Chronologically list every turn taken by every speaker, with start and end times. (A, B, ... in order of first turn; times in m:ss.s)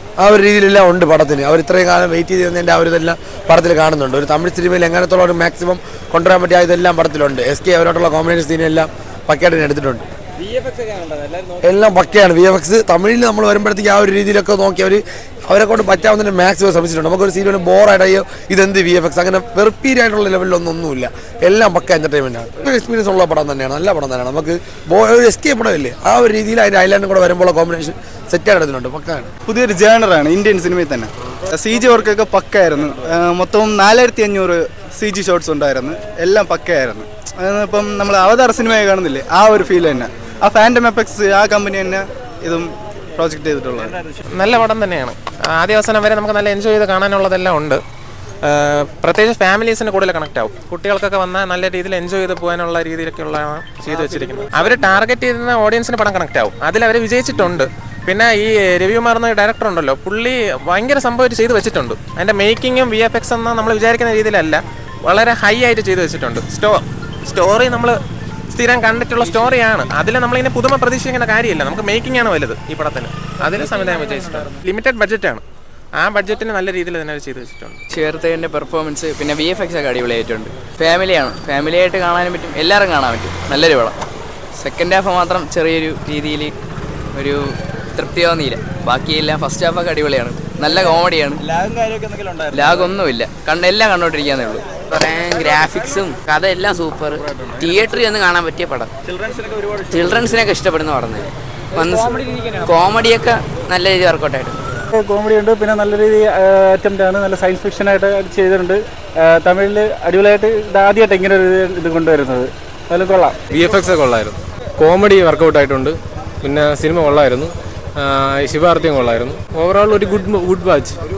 0:00.2-0:10.1 A
0:10.8-0:11.1 B
0:11.6-0:29.3 A
0:29.4-0:44.0 C
0:44.4-0:47.8 D
0:48.4-1:08.0 D
0:54.3-0:54.7 E
1:08.5-1:15.4 D
1:16.0-1:17.8 D
1:17.9-1:24.0 F
1:24.6-1:26.5 F
1:27.1-1:31.4 F
1:31.6-1:32.5 B
1:32.5-1:34.8 F
1:34.8-1:38.9 G
1:39.1-1:39.8 B
1:39.9-1:44.6 G
1:45.0-1:53.4 E
1:53.5-2:00.9 H